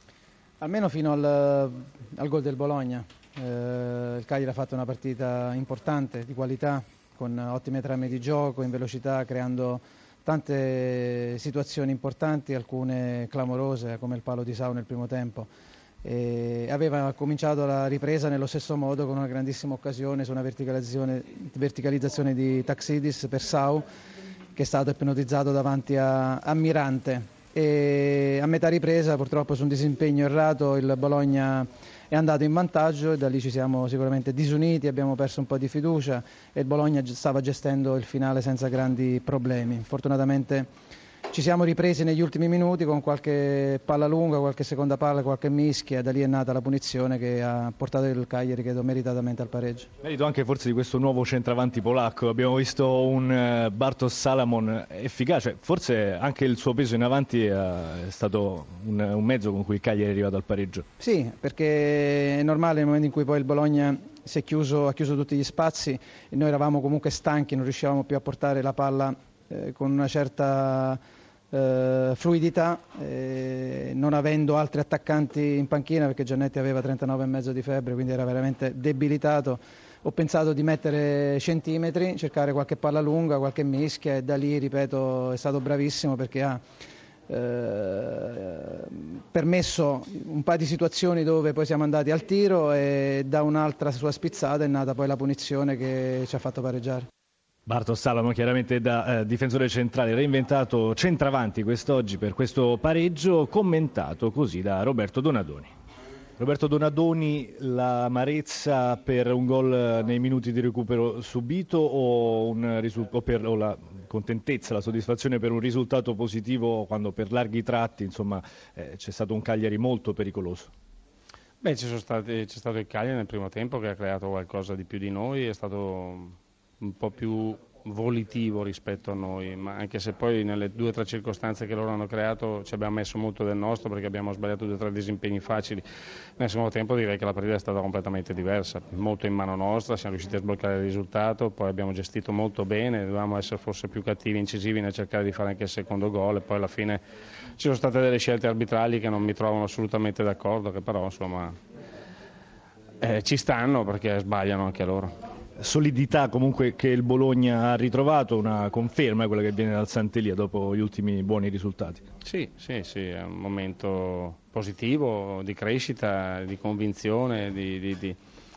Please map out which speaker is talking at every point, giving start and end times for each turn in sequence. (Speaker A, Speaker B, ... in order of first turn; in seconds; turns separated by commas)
Speaker A: 0.6-15.5, Speaker A: 16.0-23.9, Speaker A: 24.6-40.7, Speaker A: 41.3-49.9, Speaker B: 50.0-60.9, Speaker A: 61.0-71.0, Speaker A: 71.5-86.6, Speaker A: 87.3-97.1, Speaker B: 97.7-105.7, Speaker B: 106.4-120.7, Speaker C: 121.6-135.8, Speaker C: 136.4-147.0, Speaker C: 147.6-151.5, Speaker C: 153.0-155.1, Speaker B: 155.6-162.0, Speaker C: 162.2-168.2